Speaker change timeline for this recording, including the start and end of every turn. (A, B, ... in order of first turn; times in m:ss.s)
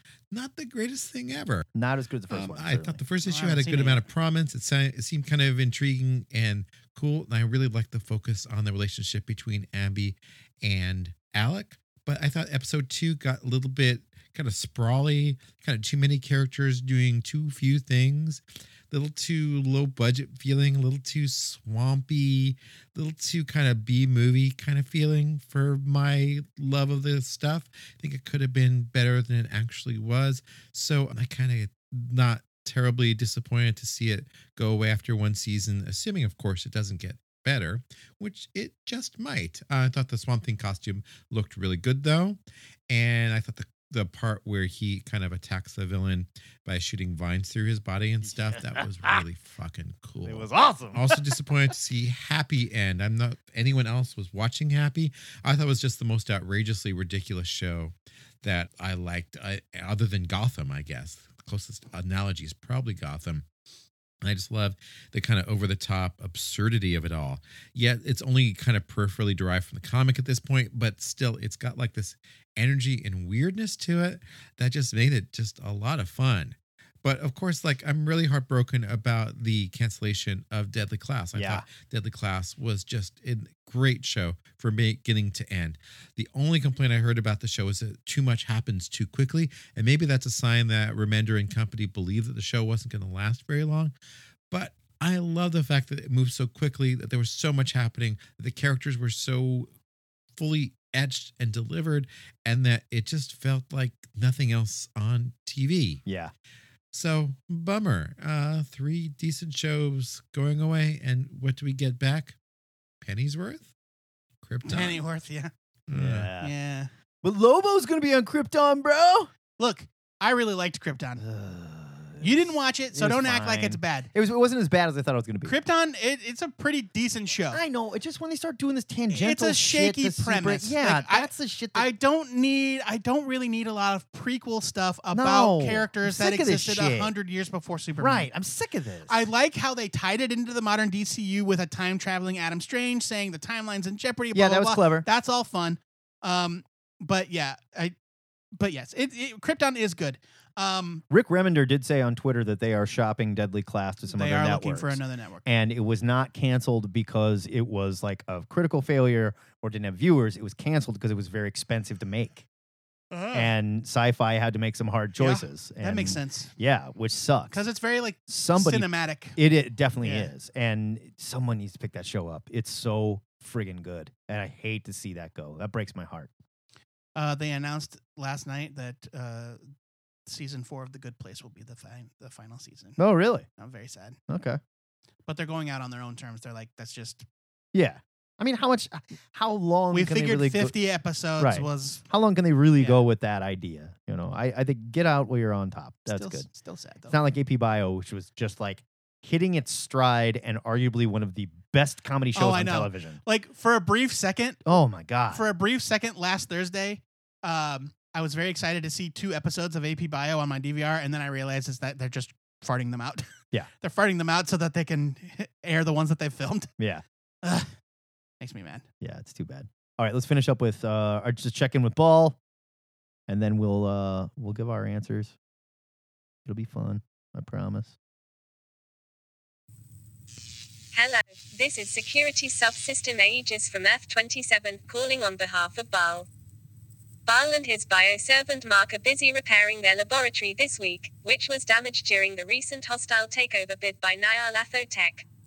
0:00.3-0:01.6 A
0:01.7-0:03.0 B
0:02.3-1:03.4 A
0:03.2-0:04.0 C
0:48.2-0:49.2 B
0:50.2-0:51.3 B
1:04.2-1:33.9 A
1:21.3-1:21.6 B
1:34.5-1:39.7 A
1:40.4-1:46.0 A
1:46.0-1:46.3 B
1:46.9-1:52.4 A
1:53.0-1:53.7 A
1:54.4-1:55.0 A
1:54.6-1:55.5 C
1:55.9-1:56.3 A
1:55.9-1:56.5 B
1:56.4-1:56.9 C
1:57.2-1:59.3 B
1:59.6-2:01.2 C
2:01.2-2:05.6 B
2:02.2-2:04.1 C
2:05.4-2:07.6 C
2:07.5-2:11.9 B
2:09.1-2:18.3 C
2:15.1-2:17.1 B
2:18.0-2:19.2 B
2:19.1-2:27.9 C
2:24.3-2:25.1 B
2:28.6-2:31.0 C
2:31.1-2:42.4 B
2:34.1-2:35.4 C
2:43.1-2:43.5 C
2:43.3-2:47.6 B
2:45.2-2:46.5 C
2:47.5-2:49.4 C
2:48.3-2:56.3 B
2:50.0-2:50.3 C
2:57.2-2:59.6 C
3:00.2-3:03.0 C
3:03.0-3:03.5 B
3:03.6-3:04.2 C
3:04.3-3:04.6 B
3:05.3-3:07.2 C
3:07.7-3:10.7 B
3:09.9-3:12.0 C
3:11.4-3:16.5 B
3:16.1-3:17.1 C
3:17.1-3:23.2 B
3:22.3-3:24.6 C
3:24.6-3:25.4 B
3:25.3-3:33.2 C
3:33.8-3:36.7 C
3:36.8-3:37.0 B
3:38.4-3:38.8 C
3:39.0-3:42.4 B
3:43.3-3:45.3 B
3:46.4-3:47.9 B
3:50.9-3:56.3 D
3:57.3-4:05.2 D